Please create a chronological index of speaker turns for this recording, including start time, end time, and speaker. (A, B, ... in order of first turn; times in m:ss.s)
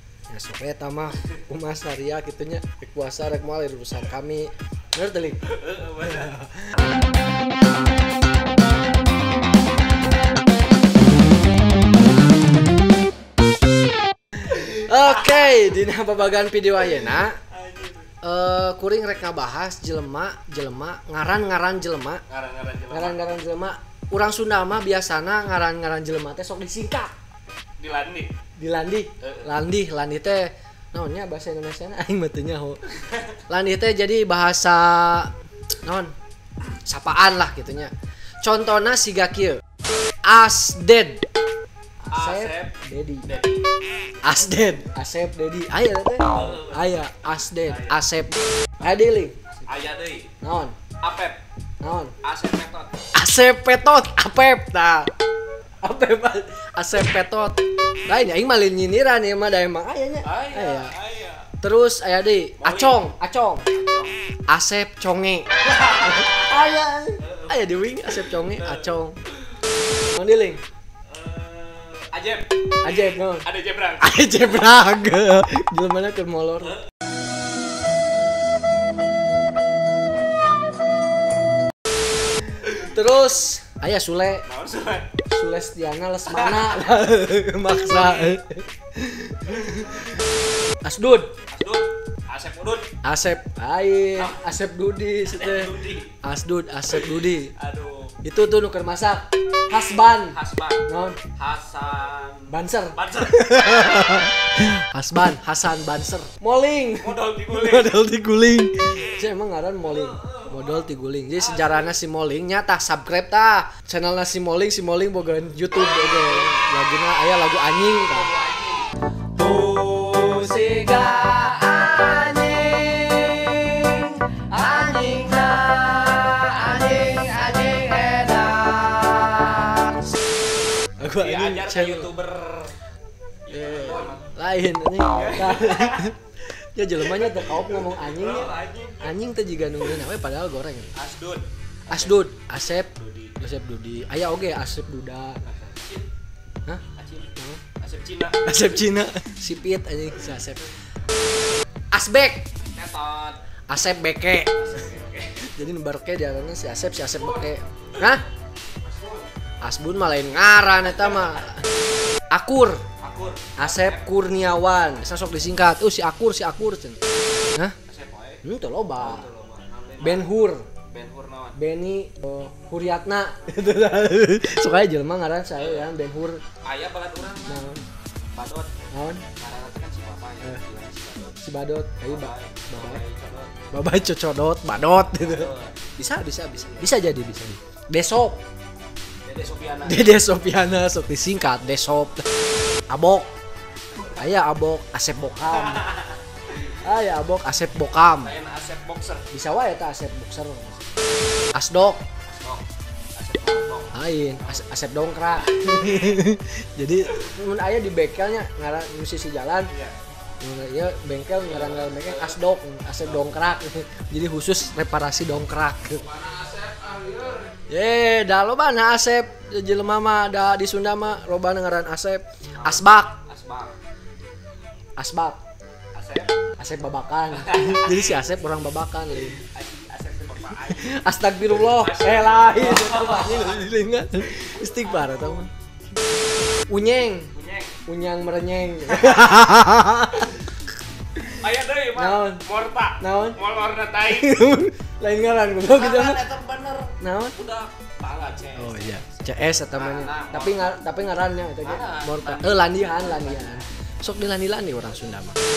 0:00.3-0:06.7 A
0:05.4-0:06.4 B
0:14.4-0:17.4 A
0:14.5-0:15.7 B
0:16.8-0:18.1 B
0:18.2-0:22.2 A
0:22.3-0:23.2 B
0:22.9-0:27.1 A
0:27.8-0:28.3 B
0:28.6-0:32.8 A
0:29.2-0:29.5 B
0:33.5-0:36.1 A
0:36.7-0:39.6 A
0:40.2-0:41.2 A
0:42.0-0:43.3 A
0:42.1-0:43.7 B
0:44.2-0:49.4 A
0:46.3-0:47.0 B
0:47.6-0:48.0 B
0:49.6-0:50.3 B
0:50.4-0:50.8 A
0:51.0-0:51.4 B
0:51.8-0:52.1 A
0:52.2-0:53.0 B
0:53.1-0:55.1 A
0:55.8-1:00.9 A
1:00.2-1:01.5 B
1:01.6-1:03.6 A
1:02.6-1:03.0 B
1:03.7-1:04.1 B
1:04.5-1:09.2 A
1:05.6-1:06.6 B
1:07.2-1:08.9 B
1:10.0-1:10.6 A
1:11.1-1:14.5 B
1:12.8-1:13.5 A
1:14.0-1:16.8 A
1:22.6-1:24.4 A
1:24.4-1:25.1 B
1:25.2-1:30.2 A
1:26.2-1:26.8 B
1:27.9-1:28.4 B
1:30.8-1:31.3 A
1:31.5-1:32.9 B
1:33.0-1:37.5 A
1:34.1-1:34.4 B
1:35.2-1:36.1 B
1:36.9-1:38.2 B
1:38.2-1:41.2 A
1:40.3-1:44.3 B
1:42.5-1:58.3 A
1:47.0-1:48.0 B
1:49.8-1:51.9 B
1:55.7-1:56.7 B
1:58.0-2:01.8 B
2:01.2-2:10.0 A
2:11.0-2:12.1 A
2:11.2-2:12.7 B
2:13.4-2:14.3 B
2:13.5-2:20.9 A
2:15.1-2:16.3 B
2:17.0-2:19.1 B
2:20.9-2:23.4 B
2:21.9-2:25.4 A
2:25.4-2:26.1 B
2:26.9-2:28.4 B
2:28.4-2:30.7 A
2:31.9-2:32.5 A
2:32.7-2:33.4 B
2:33.7-2:34.5 A
2:34.5-2:35.5 B
2:35.4-2:38.2 A
2:37.2-2:37.5 B
2:38.8-2:39.3 B
2:39.6-2:41.6 A
2:42.3-2:42.8 A
2:43.0-2:44.2 B
2:43.6-2:47.0 A
2:47.9-2:48.4 B
2:48.4-2:49.2 A
2:49.0-2:50.3 B
2:50.0-2:50.7 A
2:50.9-2:51.6 B
2:51.5-2:56.4 A
2:55.6-2:55.9 B
2:56.6-2:57.6 B
2:57.4-2:57.8 A
2:58.3-2:58.7 B
2:58.9-2:59.2 A
2:59.4-3:01.4 B
3:01.4-3:03.0 A
3:02.0-3:03.6 B
3:03.7-3:08.4 A
3:05.2-3:05.8 B
3:09.2-3:10.2 B
3:09.8-3:12.2 A
3:12.9-3:13.3 A
3:14.1-3:15.9 A
3:15.5-3:16.8 B
3:16.8-3:18.3 A
3:18.2-3:19.3 B
3:19.3-3:20.9 A
3:21.5-3:22.0 A
3:22.3-3:22.6 B
3:23.1-3:24.6 B
3:23.9-3:29.7 A
3:25.8-3:26.2 B
3:29.7-3:30.0 B
3:30.4-3:36.1 A
3:31.4-3:32.4 B
3:33.0-3:33.3 B
3:36.0-3:37.5 B
3:37.7-3:43.2 A
3:42.6-3:43.8 B
3:45.0-3:45.4 A
3:45.9-3:46.3 B
3:46.6-3:49.4 A
3:47.3-3:48.3 B
3:49.2-3:53.6 B
3:50.7-3:55.5 A
3:54.3-3:55.5 B
3:56.7-3:57.3 A
3:57.3-3:57.7 B
3:57.8-4:00.5 A
3:59.0-3:59.3 B
4:01.4-4:04.4 B
4:01.9-4:02.4 A
4:03.0-4:03.4 A
4:04.0-4:06.2 A
4:05.5-4:13.6 B
4:07.0-4:07.4 A
4:08.5-4:15.4 A